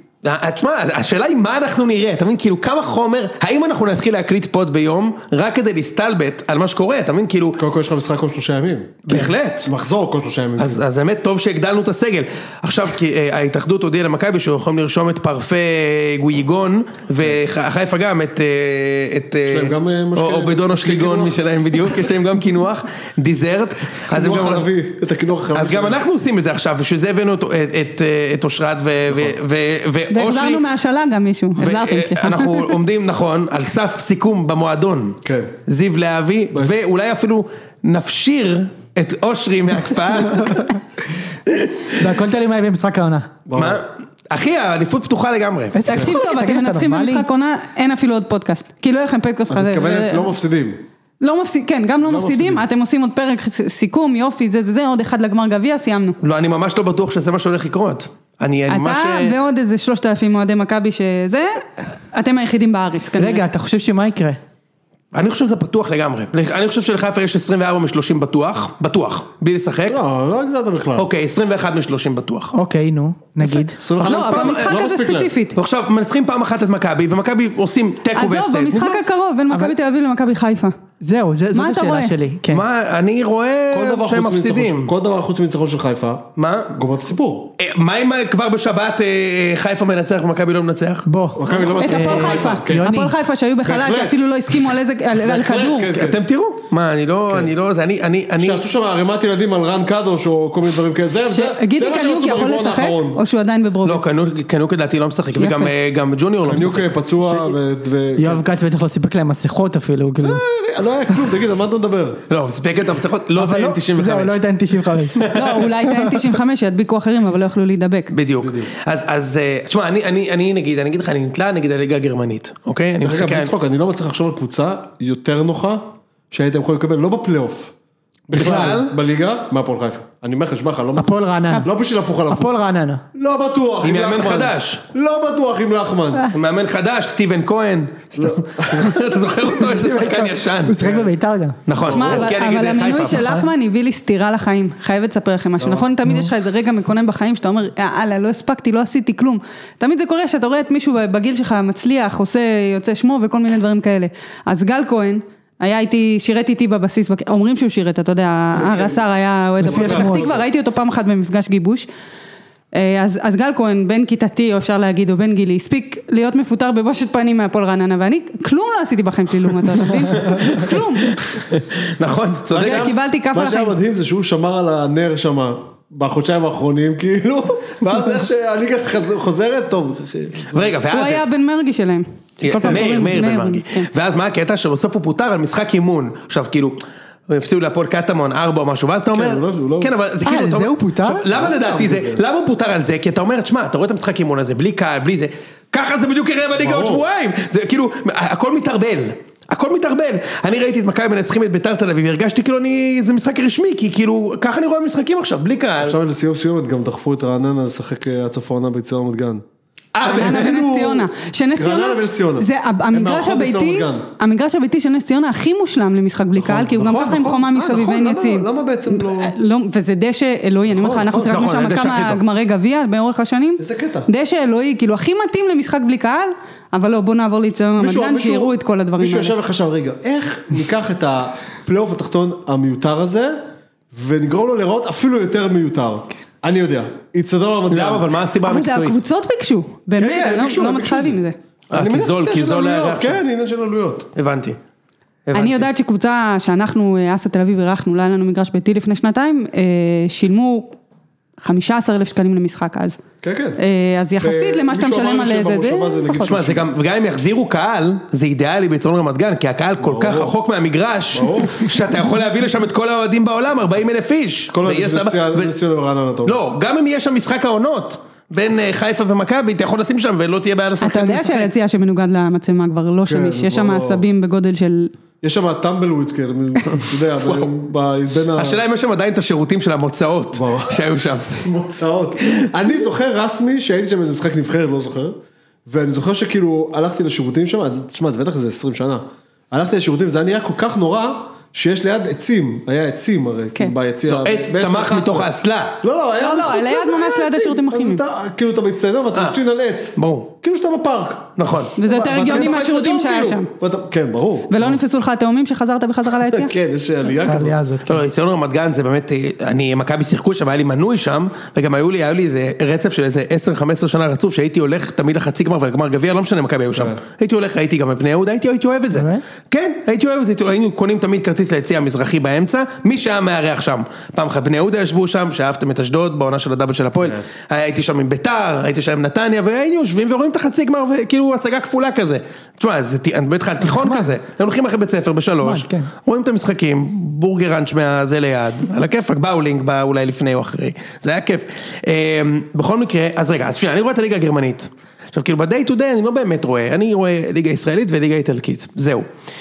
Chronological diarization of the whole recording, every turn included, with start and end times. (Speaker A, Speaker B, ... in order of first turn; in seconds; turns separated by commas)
Speaker A: 0.2-7.6, Speaker B: 7.6-10.8, Speaker A: 9.1-9.7, Speaker A: 10.6-24.7, Speaker B: 19.5-21.4, Speaker B: 24.1-26.0, Speaker A: 25.5-30.6, Speaker B: 29.1-29.4, Speaker C: 30.1-32.8, Speaker A: 31.6-40.7, Speaker B: 35.2-35.5, Speaker D: 40.2-40.7, Speaker A: 41.5-41.9, Speaker D: 42.0-43.3, Speaker B: 43.5-43.8, Speaker A: 43.5-45.8, Speaker D: 45.7-47.3, Speaker C: 45.9-50.3, Speaker B: 49.5-50.8, Speaker C: 51.2-56.2, Speaker B: 52.0-52.6, Speaker A: 56.2-59.4, Speaker C: 58.7-63.4, Speaker D: 63.2-64.4, Speaker A: 65.1-70.0, Speaker B: 69.9-71.1, Speaker A: 71.0-72.5, Speaker D: 72.5-73.8, Speaker B: 73.8-75.3, Speaker A: 74.0-74.8, Speaker C: 74.0-75.6, Speaker A: 75.5-79.0, Speaker C: 78.2-80.8, Speaker D: 79.5-79.8, Speaker D: 81.0-82.7, Speaker C: 81.5-82.1, Speaker A: 82.5-84.9, Speaker B: 83.7-87.5, Speaker A: 86.4-86.7, Speaker A: 87.6-91.1, Speaker D: 91.1-93.1, Speaker B: 91.4-92.9, Speaker C: 91.5-96.0, Speaker B: 93.6-94.2, Speaker B: 95.2-96.2, Speaker A: 95.9-98.6, Speaker B: 98.4-103.2, Speaker C: 101.3-104.1, Speaker A: 103.8-107.0, Speaker C: 105.4-105.7, Speaker B: 106.5-108.4, Speaker D: 107.2-107.6, Speaker D: 108.2-110.4, Speaker B: 110.2-112.2, Speaker A: 112.3-114.4, Speaker D: 113.3-116.3, Speaker A: 115.2-115.6, Speaker C: 115.3-118.1, Speaker A: 118.1-123.5, Speaker B: 118.4-118.7, Speaker B: 123.0-127.7, Speaker B: 128.3-132.5, Speaker A: 128.3-128.9, Speaker D: 128.3-128.8, Speaker D: 131.0-131.7, Speaker D: 132.3-133.0, Speaker B: 133.1-136.3, Speaker A: 133.8-134.8, Speaker A: 136.3-140.8, Speaker B: 138.2-139.1, Speaker D: 139.5-141.6, Speaker B: 140.8-141.1, Speaker A: 141.7-143.4, Speaker B: 141.8-142.3, Speaker C: 141.9-161.9, Speaker D: 143.1-143.5, Speaker B: 145.6-145.9, Speaker D: 146.1-146.3, Speaker B: 158.6-159.0, Speaker D: 159.6-160.3, Speaker B: 159.6-160.4, Speaker C: 162.7-171.2, Speaker A: 170.1-172.9, Speaker B: 172.5-180.8, Speaker C: 172.5-173.8, Speaker A: 180.5-181.2, Speaker C: 180.9-183.9, Speaker A: 182.4-206.0, Speaker B: 189.1-189.9, Speaker D: 190.2-191.3, Speaker B: 191.3-192.2, Speaker B: 196.6-197.0, Speaker B: 205.8-209.4, Speaker A: 209.9-210.6, Speaker B: 210.0-214.1, Speaker C: 210.0-229.3, Speaker B: 216.4-219.3, Speaker B: 220.7-221.3, Speaker A: 221.2-222.2, Speaker B: 223.6-224.1, Speaker B: 227.8-233.4, Speaker B: 233.9-238.1, Speaker A: 237.7-239.0, Speaker C: 238.4-241.4, Speaker B: 240.0-241.2, Speaker A: 241.7-243.2, Speaker B: 241.7-244.1, Speaker A: 244.2-244.6, Speaker A: 245.3-245.7, Speaker C: 245.3-250.8, Speaker C: 251.4-253.0, Speaker B: 253.2-253.6, Speaker C: 253.6-256.4, Speaker B: 254.2-256.7, Speaker A: 256.2-265.5, Speaker B: 259.8-260.3, Speaker B: 261.1-261.7, Speaker B: 264.5-266.4, Speaker A: 266.2-271.5, Speaker C: 270.8-274.9, Speaker B: 273.0-274.0, Speaker B: 275.2-278.6, Speaker A: 276.7-277.5, Speaker A: 278.4-281.5, Speaker B: 280.3-280.9, Speaker B: 281.4-295.3, Speaker A: 294.1-295.8, Speaker B: 295.8-301.3, Speaker C: 296.2-298.0, Speaker A: 300.0-300.3, Speaker A: 301.4-301.8, Speaker C: 301.8-303.5, Speaker B: 301.8-304.8, Speaker C: 304.5-306.5, Speaker B: 306.3-307.6, Speaker D: 307.2-308.0, Speaker A: 307.9-349.1, Speaker D: 318.9-319.2, Speaker D: 333.6-334.1, Speaker D: 335.4-335.9